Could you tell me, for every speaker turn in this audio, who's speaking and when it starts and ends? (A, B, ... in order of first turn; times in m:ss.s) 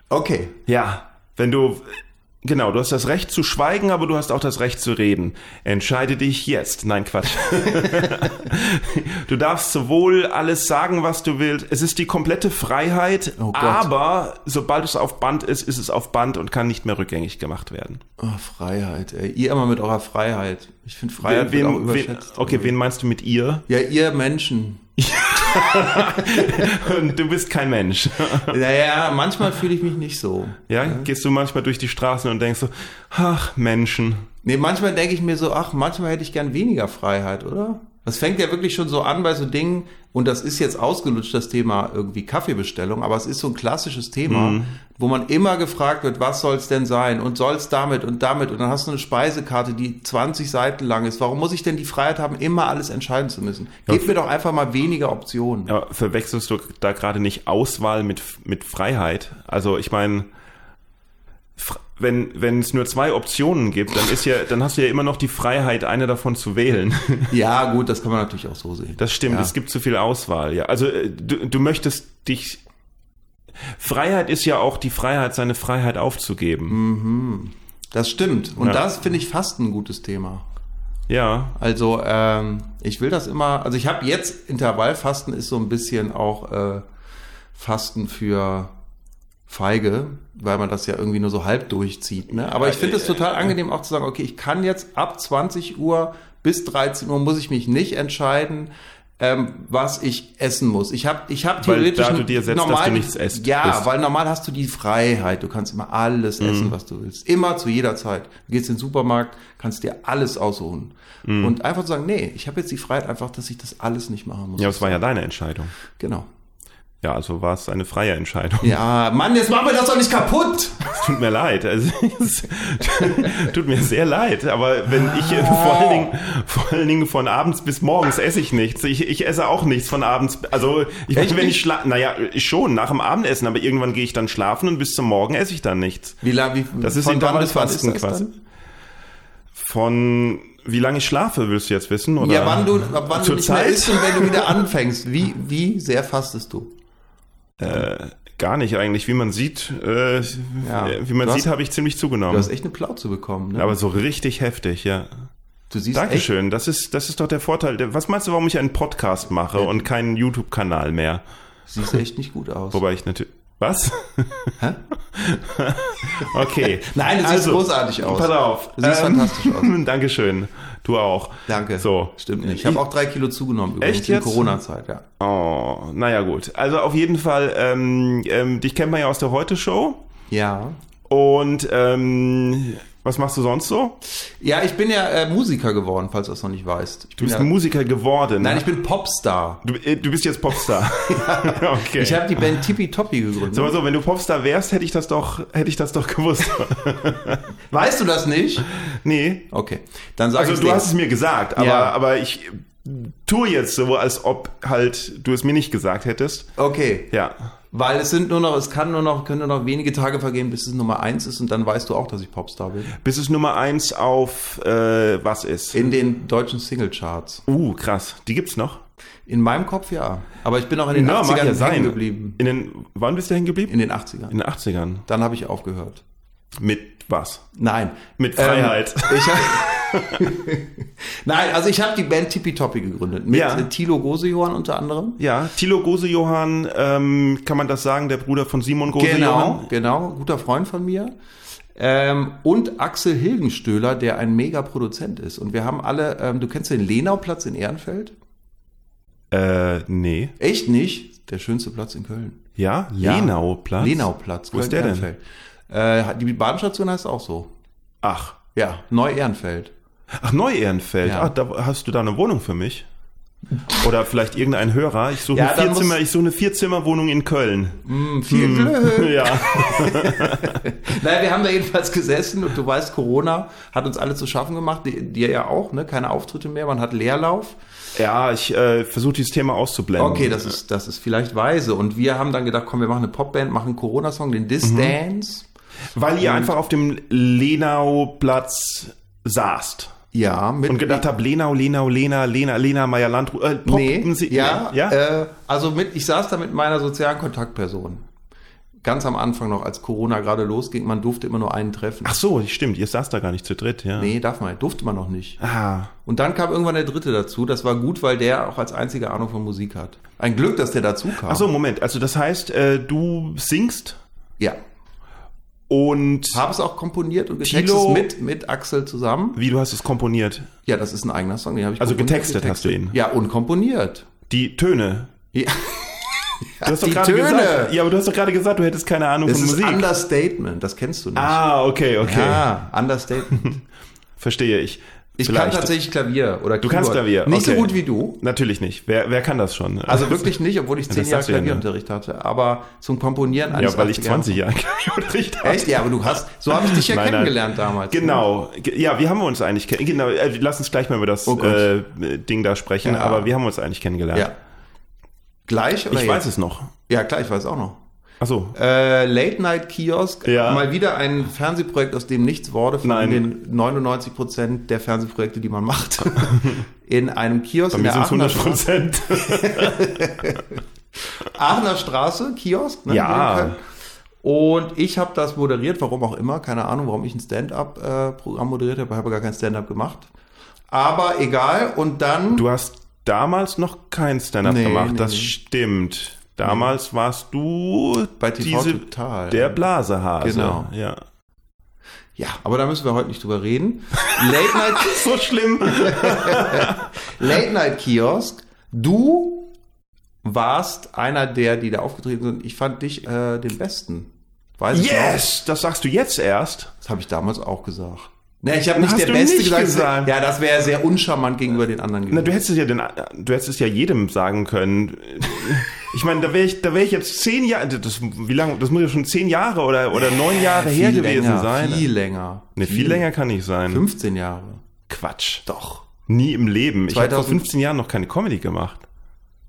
0:00.1-0:00.6 A
0:00.7-0:18.0 B
0:07.7-0:08.3 A
0:13.4-0:13.9 A
0:18.2-0:22.8 A
0:21.2-0:23.6 B
0:23.7-0:26.9 A
0:25.0-0:28.6 B
0:28.4-0:31.1 A
0:30.7-0:34.3 B
0:34.4-0:55.7 A
0:44.3-0:44.8 B
0:55.7-1:00.3 B
1:01.6-1:07.3 B
1:07.3-1:09.5 A
1:09.0-1:12.6 B
1:13.7-1:16.8 B
1:16.7-1:20.5 A
1:21.1-1:21.6 B
1:21.6-1:26.9 A
1:27.5-1:28.8 A
1:29.5-1:55.0 A
1:32.4-1:33.5 B
1:41.6-1:43.8 B
1:46.4-1:46.7 B
1:51.2-1:51.6 B
1:54.6-1:55.8 B
1:55.9-1:56.3 A
1:57.0-1:58.8 B
1:58.6-2:00.9 A
2:00.8-2:16.2 B
2:04.9-2:06.1 A
2:11.1-2:11.6 A
2:16.2-2:18.3 A
2:16.8-2:18.3 B
2:19.5-2:24.6 B
2:22.2-2:26.7 A
2:27.6-2:32.5 B
2:30.6-2:31.5 A
2:32.3-2:33.8 A
2:33.6-2:35.3 B
2:35.7-2:36.3 A
2:35.9-2:41.2 B
2:41.7-2:42.8 A
2:42.7-2:44.6 B
2:45.1-2:52.8 B
2:46.2-2:49.7 A
2:51.5-2:55.0 A
2:53.8-2:54.5 B
2:55.2-3:00.0 B
3:00.3-3:00.8 A
3:01.1-3:04.0 B
3:04.2-3:07.5 A
3:07.2-3:08.6 B
3:08.4-3:09.6 A
3:09.6-3:12.6 B
3:10.6-3:13.8 A
3:13.5-3:17.4 B
3:17.7-3:18.7 A
3:18.8-3:19.5 B
3:19.5-3:20.9 A
3:20.3-3:26.5 B
3:21.6-3:21.9 A
3:26.6-3:27.1 A
3:27.1-3:27.4 B
3:27.7-3:32.9 A
3:33.0-3:35.8 B
3:35.7-3:37.4 A
3:37.5-3:38.8 B
3:39.3-3:42.4 A
3:40.9-3:43.8 B
3:43.7-3:44.4 A
3:44.3-3:45.0 B
3:45.1-3:46.0 A
3:46.6-3:47.4 B
3:47.5-3:55.2 A
3:48.2-3:50.3 B
3:53.3-3:53.7 B
3:55.2-3:59.7 B
3:58.9-4:01.1 A
4:01.7-4:08.2 A
4:09.3-4:10.3 B
4:10.4-4:12.4 A
4:12.6-4:15.1 B
4:13.0-4:17.5 A
4:18.0-4:18.4 B
4:18.6-4:19.7 A
4:20.2-4:22.9 B
4:21.0-4:21.3 A
4:23.7-4:30.6 B
4:25.3-4:26.0 A
4:27.8-4:37.6 A
4:38.0-4:40.6 B
4:40.0-4:45.5 A
4:44.6-4:45.0 B
4:46.0-4:50.0 B
4:46.2-4:46.5 A
4:50.1-4:51.1 A
4:50.7-4:55.0 B
4:53.6-4:58.1 A
4:58.8-5:02.1 A
5:02.0-5:04.1 B
5:04.0-5:05.4 A
5:05.4-5:05.9 B
5:06.0-5:11.5 A
5:11.2-5:14.0 B
5:15.7-5:16.5 B
5:16.3-5:19.4 A
5:17.4-5:18.1 B
5:19.4-5:20.5 B
5:20.6-5:24.1 A
5:21.8-5:23.0 B
5:24.3-5:25.1 B
5:25.3-5:27.8 A
5:26.6-5:29.9 B
5:29.2-5:31.4 A
5:31.2-5:32.5 B
5:32.0-5:33.6 A
5:34.2-5:35.7 B
5:35.2-5:38.2 A
5:36.6-5:40.3 B
5:39.9-5:44.4 A
5:40.9-5:41.6 B
5:43.5-5:45.8 B
5:45.4-5:48.2 A
5:46.5-5:54.3 B
5:51.3-5:51.7 A
5:52.8-5:53.3 A
5:55.5-5:56.3 A
5:55.9-5:56.7 B
5:56.9-5:57.8 A
5:58.2-5:58.6 B
5:58.5-6:13.6 A
6:00.2-6:00.7 B
6:02.8-6:03.3 B
6:06.3-6:06.6 B
6:07.7-6:10.3 B
6:12.9-6:13.6 B
6:14.2-6:20.1 A
6:20.7-6:22.4 A
6:22.3-6:31.0 B
6:24.4-6:25.3 A
6:26.4-6:26.7 A
6:28.2-6:29.6 A
6:30.2-6:30.7 A
6:32.2-6:39.5 A
6:34.0-6:37.2 B
6:40.2-6:45.2 A
6:44.7-6:46.7 B
6:46.8-6:52.4 A
6:48.8-6:50.1 B
6:52.1-7:01.9 B
7:00.0-7:03.1 A
7:02.6-7:03.8 B
7:03.7-7:04.6 A
7:04.9-7:05.4 B
7:05.5-7:05.9 A
7:06.1-7:08.9 B
7:06.9-7:07.4 A